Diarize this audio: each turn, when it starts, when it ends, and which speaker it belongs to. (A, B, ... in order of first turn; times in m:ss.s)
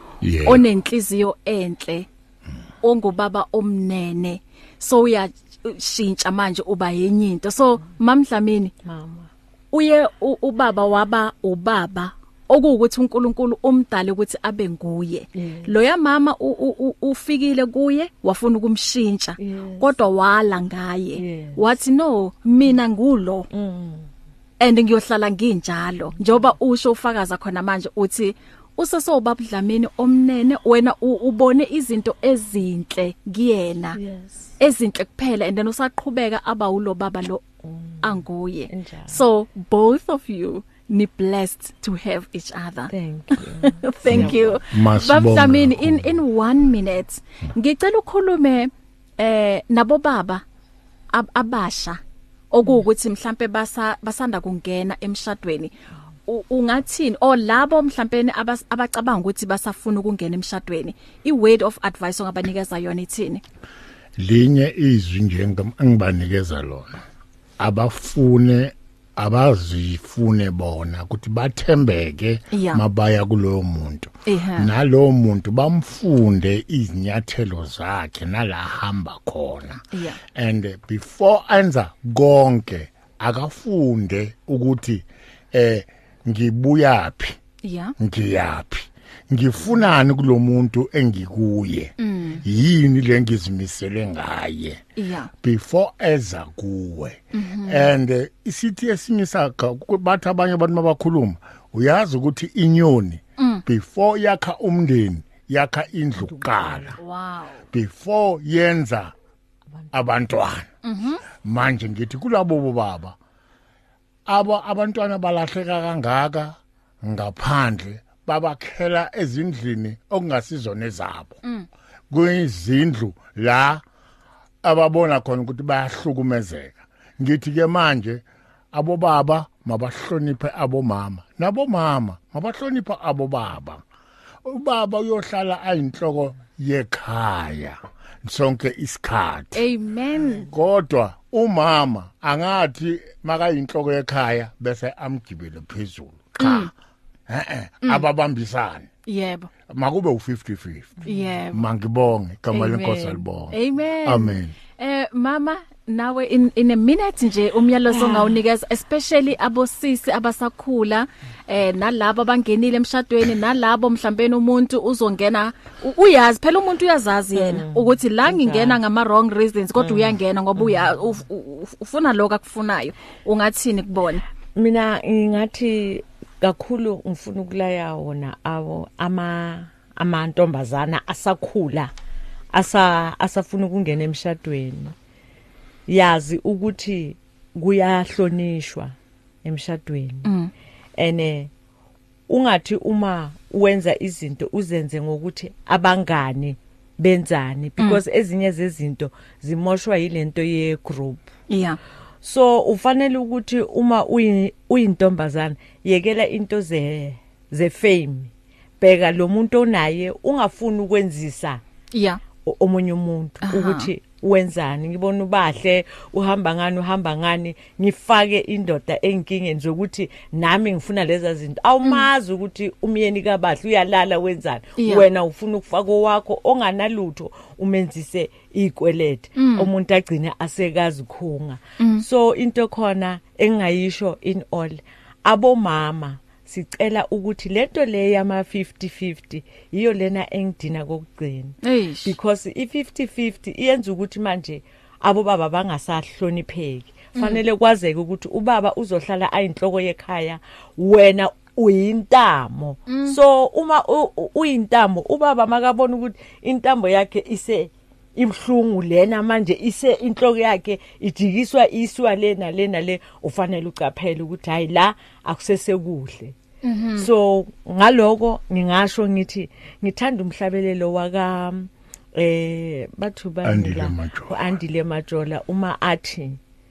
0:00.2-0:00.6 A
0:00.4-0:02.1 B
0:02.8-0:08.7 B
0:08.8-0:09.3 C
0:09.7-0:23.5 B
0:15.3-0:15.7 C
0:19.4-0:19.9 C
0:21.2-0:21.7 C
0:23.5-0:24.1 C
0:24.6-0:34.0 B
0:33.9-0:34.6 C
0:34.6-0:37.4 B
0:37.6-0:38.2 C
0:38.0-0:50.4 B
0:38.7-0:39.2 C
0:42.9-0:44.6 C
0:44.1-0:46.2 A
0:51.1-0:52.0 B
0:52.5-0:55.7 B
0:56.3-1:03.4 B
1:04.2-1:07.0 A
1:07.6-1:19.8 A
1:12.5-1:12.8 B
1:14.2-1:14.7 B
1:19.9-1:20.2 B
1:20.3-1:27.4 A
1:27.6-1:27.9 B
1:28.0-1:34.8 A
1:32.0-1:32.4 B
1:35.0-1:35.3 B
1:35.4-1:47.0 A
1:37.3-1:37.9 B
1:43.4-1:43.6 B
1:46.2-1:47.0 C
1:47.0-1:47.6 B
1:47.7-1:49.1 A
1:49.9-1:50.7 A
1:50.8-1:51.2 B
1:51.4-1:53.2 A
1:54.3-2:01.4 A
2:02.1-2:03.8 A
2:04.6-2:13.8 A
2:14.4-2:19.6 A
2:19.5-2:20.5 B
2:20.4-2:26.7 A
2:26.4-2:26.7 B
2:27.3-2:28.9 A
2:29.0-2:29.5 B
2:29.7-2:34.5 A
2:31.0-2:31.6 B
2:32.5-2:54.2 B
2:37.9-2:38.4 C
2:47.3-2:48.8 C
2:49.8-2:51.2 C
2:54.5-3:01.9 C
3:02.5-3:04.9 C
3:05.9-3:10.3 C
3:10.2-3:10.5 B
3:11.0-3:11.5 C
3:12.3-3:21.3 C
3:21.5-3:21.8 B
3:22.2-3:31.6 C
3:31.9-3:32.2 B
3:32.4-4:26.3 C
3:33.4-3:33.9 B
3:44.8-3:45.0 B
3:49.4-3:49.7 B
3:51.8-3:52.0 B
4:01.6-4:02.1 B
4:07.2-4:07.4 B
4:12.9-4:13.2 B
4:26.6-4:27.1 B
4:27.0-4:36.4 C
4:33.4-4:34.6 A